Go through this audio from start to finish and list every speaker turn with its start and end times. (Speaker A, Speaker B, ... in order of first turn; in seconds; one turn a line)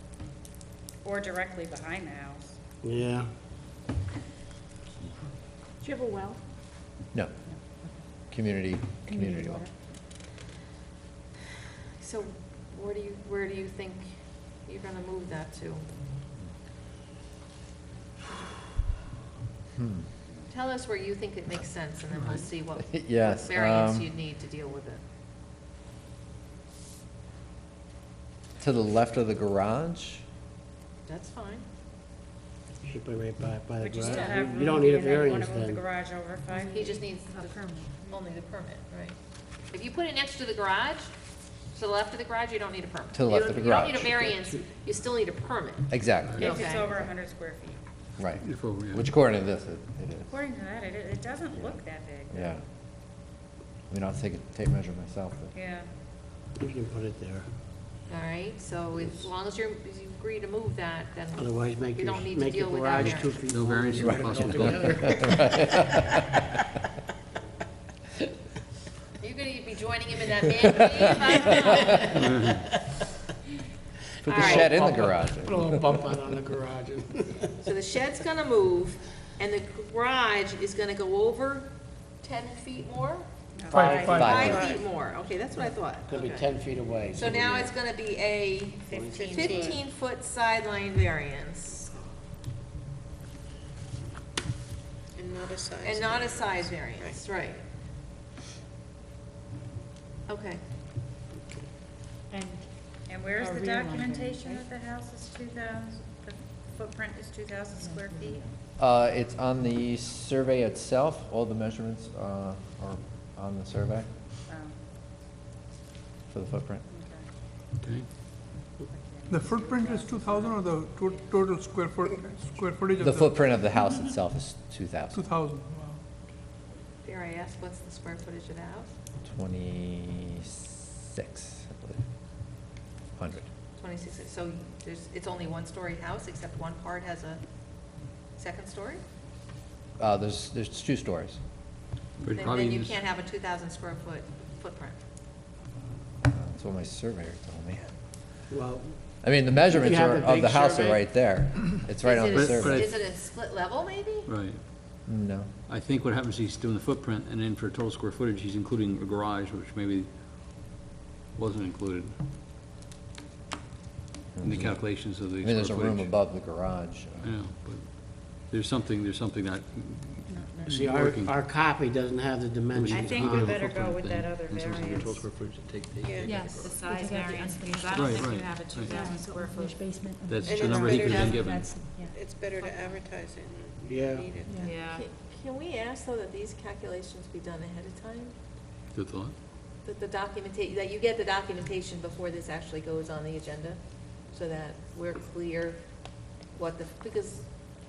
Speaker A: 1.0-2.6
Speaker B: 2.8-3.3
Speaker C: 5.8-6.4
Speaker D: 8.3-9.7
Speaker C: 9.1-9.7
Speaker E: 12.0-14.1
Speaker E: 14.7-15.8
Speaker D: 19.8-20.0
Speaker E: 20.5-25.0
Speaker D: 22.8-24.1
Speaker D: 28.6-30.2
Speaker E: 31.1-31.6
Speaker B: 32.8-35.8
Speaker A: 33.8-37.0
Speaker E: 34.0-34.4
Speaker C: 36.5-38.0
Speaker E: 36.6-39.1
Speaker E: 39.7-41.1
Speaker E: 41.7-46.9
Speaker D: 43.1-44.1
Speaker D: 45.9-46.9
Speaker A: 46.4-47.8
Speaker D: 48.2-50.3
Speaker F: 48.4-49.0
Speaker A: 50.3-52.5
Speaker D: 52.3-52.6
Speaker D: 53.9-55.5
Speaker A: 55.5-55.9
Speaker B: 56.6-57.5
Speaker E: 58.1-63.3
Speaker B: 61.4-65.8
Speaker F: 63.0-65.1
Speaker D: 64.7-66.2
Speaker E: 69.2-72.4
Speaker B: 71.9-72.5
Speaker F: 72.1-72.6
Speaker E: 74.2-74.8
Speaker D: 74.3-75.8
Speaker B: 74.3-77.5
Speaker E: 77.6-81.7
Speaker E: 82.2-86.4
Speaker A: 83.6-84.3
Speaker B: 83.7-84.3
Speaker G: 83.8-84.8
Speaker D: 84.1-84.7
Speaker B: 86.1-87.7
Speaker E: 87.1-91.9
Speaker B: 88.9-89.3
Speaker A: 88.9-89.8
Speaker G: 89.1-89.8
Speaker G: 95.2-97.2
Speaker E: 95.8-97.6
Speaker E: 100.3-100.6
Speaker C: 102.3-102.7
Speaker A: 103.1-108.4
Speaker C: 103.3-104.6
Speaker C: 107.8-108.4
Speaker D: 108.8-114.1
Speaker A: 114.5-114.8
Speaker D: 116.3-116.8
Speaker A: 116.9-117.2
Speaker F: 117.8-118.1
Speaker A: 118.8-121.5
Speaker H: 119.3-123.0
Speaker G: 121.5-122.1
Speaker G: 122.8-123.0
Speaker D: 123.0-125.2
Speaker G: 125.1-125.9
Speaker E: 127.0-128.9
Speaker D: 129.2-132.0
Speaker D: 133.2-133.4
Speaker E: 133.8-137.4
Speaker E: 138.4-139.0
Speaker D: 140.0-141.4
Speaker F: 142.2-143.0
Speaker E: 142.3-144.9
Speaker D: 146.3-147.9
Speaker B: 148.5-149.0
Speaker D: 149.2-152.9
Speaker B: 149.7-151.0
Speaker E: 152.0-154.3
Speaker F: 152.3-152.9
Speaker F: 154.2-154.6
Speaker D: 155.1-155.5
Speaker F: 155.7-160.7
Speaker F: 161.3-162.2
Speaker D: 164.3-167.3
Speaker F: 164.4-166.1
Speaker F: 167.2-171.4
Speaker C: 170.3-170.8
Speaker B: 170.6-173.6
Speaker F: 172.7-176.8
Speaker A: 172.9-175.3
Speaker G: 176.0-176.4
Speaker C: 176.2-182.2
Speaker A: 176.4-180.1
Speaker F: 177.9-179.0
Speaker F: 180.3-181.7
Speaker G: 180.4-181.4
Speaker G: 182.1-184.6
Speaker A: 182.6-183.0
Speaker B: 183.8-184.3
Speaker C: 184.4-184.8
Speaker A: 184.6-185.0
Speaker E: 184.9-188.3
Speaker F: 188.9-189.3
Speaker E: 189.8-193.8
Speaker E: 194.3-195.8
Speaker E: 196.5-197.4